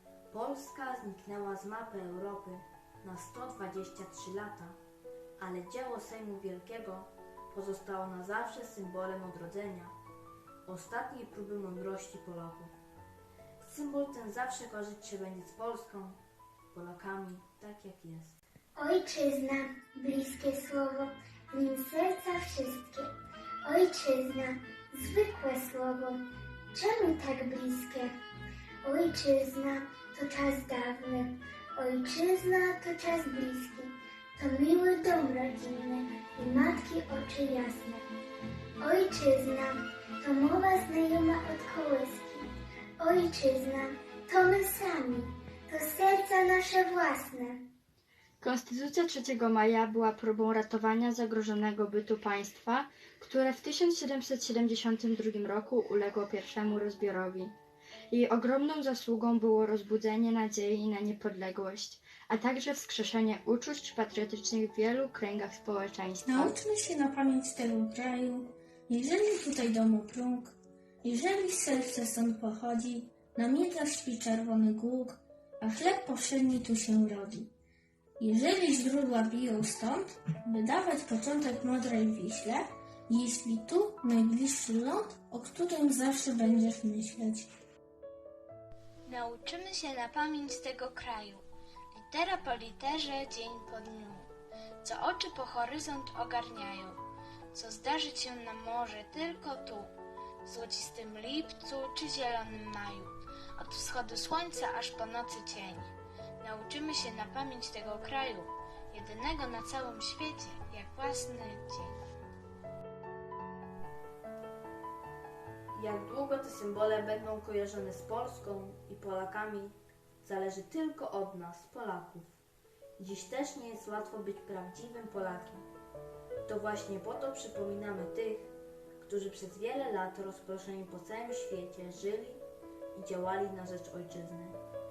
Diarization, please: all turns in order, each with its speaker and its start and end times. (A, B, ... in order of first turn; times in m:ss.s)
0:00.3-0:04.8 A
0:05.4-0:10.0 A
0:10.7-0:12.7 A
0:13.6-0:16.2 A
0:16.7-0:18.4 A
0:18.8-0:23.1 B
0:23.6-0:28.2 B
0:28.8-0:38.0 B
0:38.8-0:42.5 B
0:43.0-0:47.7 B
0:48.4-0:57.5 C
0:58.1-1:06.6 C
1:06.3-1:17.5 D
1:18.2-1:27.5 D
1:29.1-1:34.3 E
1:34.8-1:37.0 E
1:37.5-1:39.9 E
1:40.4-1:52.0 E
1:55.7-2:02.4 A
2:03.0-2:05.7 A
2:06.5-2:12.4 A
2:13.0-2:14.6 A